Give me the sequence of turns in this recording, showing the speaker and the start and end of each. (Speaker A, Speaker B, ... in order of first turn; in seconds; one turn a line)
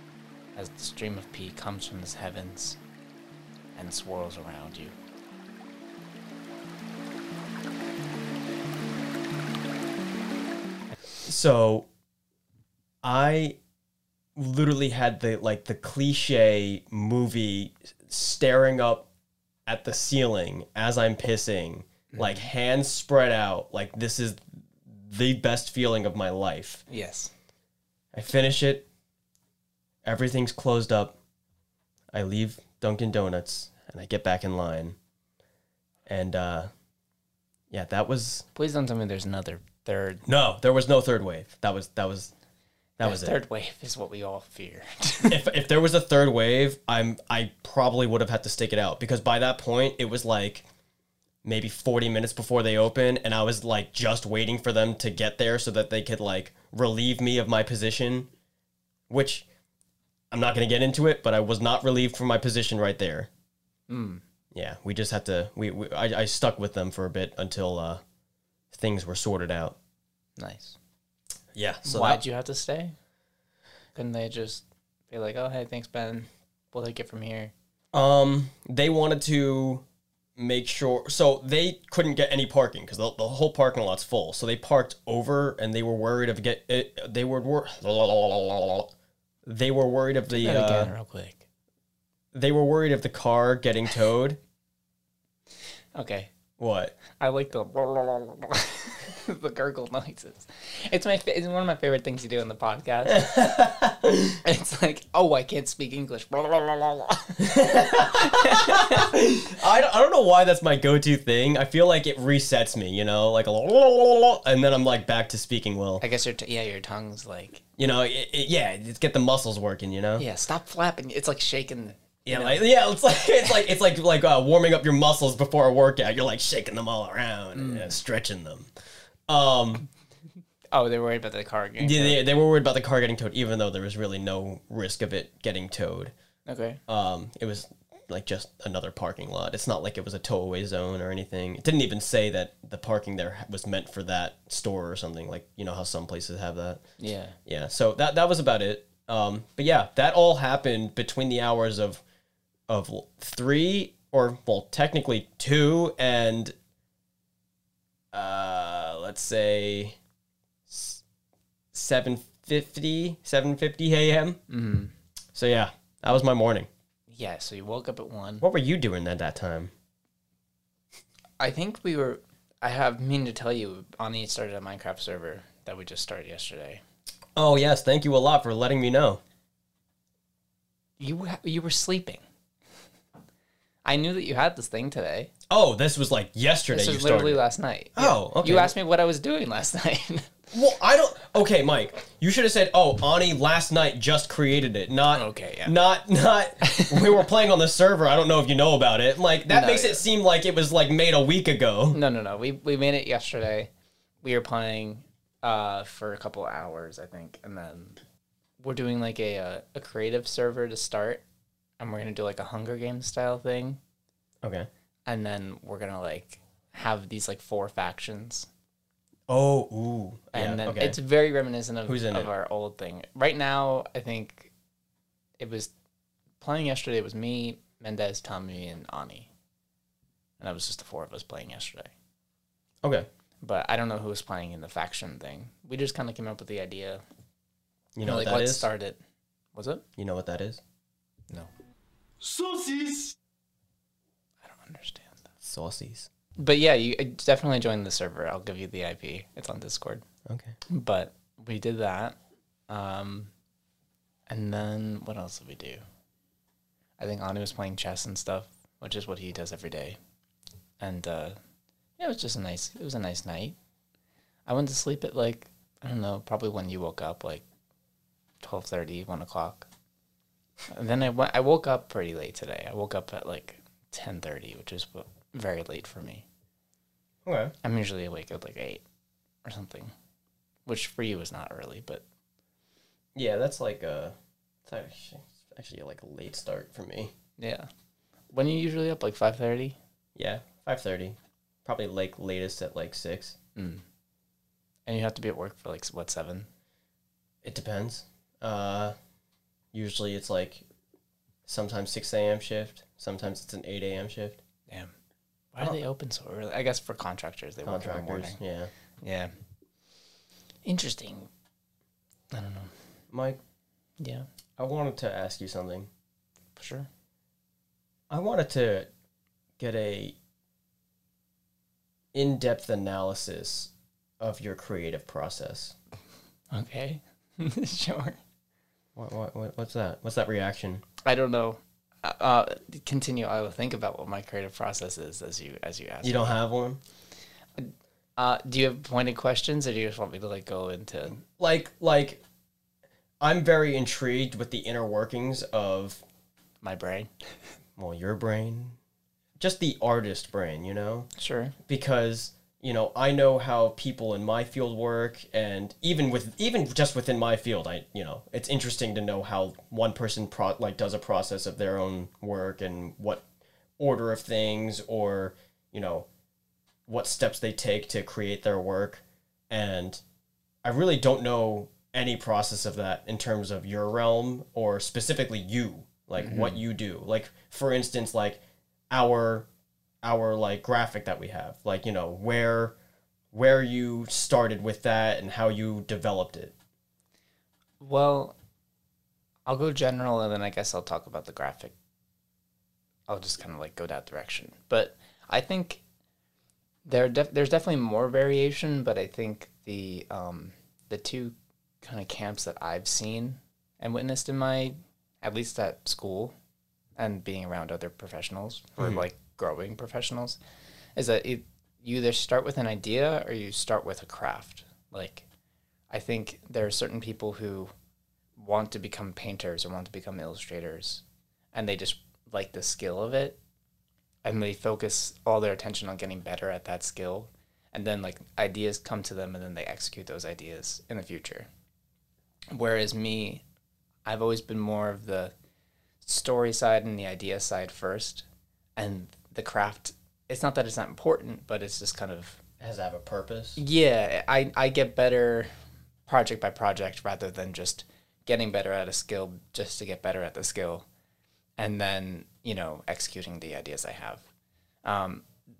Speaker A: 0.6-2.8
Speaker A: 3.8-5.0
Speaker B: 11.2-11.9
Speaker B: 13.0-13.6
Speaker B: 14.4-19.1
Speaker B: 19.7-26.8
Speaker A: 22.1-22.5
Speaker A: 26.9-27.3
Speaker B: 28.1-28.9
Speaker B: 30.0-31.2
Speaker B: 32.1-35.0
Speaker B: 36.1-36.7
Speaker B: 37.7-38.5
Speaker A: 38.5-40.2
Speaker B: 40.3-42.3
Speaker B: 43.0-43.4
Speaker A: 43.0-45.4
Speaker B: 45.3-50.7
Speaker B: 51.5-58.3
Speaker B: 59.1-59.5
Speaker B: 60.3-63.3
Speaker A: 63.9-64.2
Speaker B: 64.5-68.0
Speaker B: 68.7-69.8
Speaker A: 70.4-70.8
Speaker B: 71.5-72.2
Speaker A: 71.8-73.0
Speaker A: 74.0-77.5
Speaker B: 77.9-79.8
Speaker B: 80.4-88.9
Speaker B: 89.5-90.9
Speaker A: 90.3-91.4
Speaker B: 92.3-94.4
Speaker A: 96.0-96.3
Speaker B: 96.6-97.0
Speaker A: 97.2-103.3
Speaker B: 103.1-104.4
Speaker A: 104.4-109.1
Speaker B: 107.4-116.0
Speaker A: 116.0-117.6
Speaker B: 117.8-120.2
Speaker A: 120.2-122.6
Speaker B: 122.2-128.7
Speaker A: 127.5-127.9
Speaker B: 129.3-129.9
Speaker A: 130.7-132.2
Speaker B: 131.8-136.1
Speaker A: 136.5-136.8
Speaker B: 136.9-146.8
Speaker A: 147.0-147.4
Speaker B: 147.4-152.0
Speaker B: 152.7-156.6
Speaker B: 158.1-160.0
Speaker B: 160.7-161.0
Speaker B: 161.7-164.4
Speaker A: 164.5-164.9
Speaker B: 165.3-166.7
Speaker A: 167.1-168.4
Speaker B: 168.4-169.7
Speaker A: 171.4-176.8
Speaker B: 177.4-179.2
Speaker A: 181.0-182.2
Speaker A: 183.8-185.3
Speaker B: 185.5-187.4
Speaker A: 186.7-190.4
Speaker B: 188.0-188.7
Speaker B: 190.5-202.0
Speaker A: 195.1-195.8
Speaker A: 196.6-197.2
Speaker A: 199.5-200.0
Speaker A: 201.9-203.7
Speaker A: 204.2-208.0
Speaker A: 208.6-211.2
Speaker A: 211.8-213.8
Speaker B: 214.4-214.7
Speaker A: 215.1-218.5
Speaker B: 219.3-221.0
Speaker A: 220.3-224.5
Speaker B: 221.9-222.3
Speaker A: 225.4-225.7
Speaker A: 226.4-229.3
Speaker A: 230.4-231.9
Speaker A: 233.4-237.0
Speaker B: 237.9-238.7
Speaker A: 238.0-239.0
Speaker A: 239.5-239.8
Speaker B: 240.0-240.6
Speaker A: 244.4-245.2
Speaker B: 245.4-246.1
Speaker A: 246.4-250.1
Speaker B: 250.3-250.6
Speaker A: 250.7-252.2
Speaker A: 252.7-253.3
Speaker A: 254.3-255.8
Speaker A: 257.0-260.0
Speaker A: 260.8-261.4
Speaker A: 262.0-263.6
Speaker A: 264.5-267.4
Speaker A: 268.4-269.7
Speaker A: 270.7-276.3
Speaker B: 277.2-277.5
Speaker A: 277.6-278.8
Speaker A: 279.4-279.9
Speaker A: 280.7-282.0
Speaker B: 283.1-287.1
Speaker A: 287.4-287.7
Speaker A: 288.3-289.8
Speaker B: 290.2-293.4
Speaker A: 293.6-293.8
Speaker A: 294.9-296.5
Speaker B: 297.4-298.9
Speaker B: 299.7-300.6
Speaker B: 301.5-304.4
Speaker A: 305.5-308.4
Speaker B: 307.6-308.7
Speaker A: 309.0-309.3
Speaker A: 310.6-311.3
Speaker A: 312.3-312.8
Speaker B: 313.1-313.4
Speaker A: 314.0-314.3
Speaker B: 314.6-315.9
Speaker A: 316.6-316.9
Speaker B: 318.1-318.9
Speaker B: 319.6-320.2
Speaker B: 322.1-325.8
Speaker A: 326.5-328.2
Speaker B: 329.0-330.8
Speaker A: 331.0-336.4
Speaker B: 336.0-336.8
Speaker A: 337.6-341.2
Speaker B: 341.2-342.2
Speaker B: 343.2-346.0
Speaker A: 346.6-347.1
Speaker B: 347.8-348.8
Speaker B: 349.4-351.1
Speaker A: 351.2-351.5
Speaker B: 351.7-363.2
Speaker B: 363.8-366.1
Speaker B: 366.9-370.0
Speaker B: 370.6-379.5
Speaker A: 376.2-376.6
Speaker B: 380.0-382.8
Speaker B: 383.3-386.5
Speaker A: 387.8-388.4
Speaker A: 389.5-391.8
Speaker A: 393.1-395.8
Speaker A: 396.9-406.4
Speaker A: 407.0-410.4
Speaker A: 411.0-415.3
Speaker A: 415.9-417.7
Speaker A: 418.4-421.0
Speaker A: 421.5-423.4
Speaker A: 424.2-431.5
Speaker A: 432.5-433.4
Speaker A: 434.1-435.3
Speaker A: 436.0-438.2
Speaker A: 438.8-442.4
Speaker B: 442.6-443.6
Speaker A: 443.6-445.5
Speaker A: 446.1-450.9
Speaker A: 451.6-454.2
Speaker A: 454.9-455.3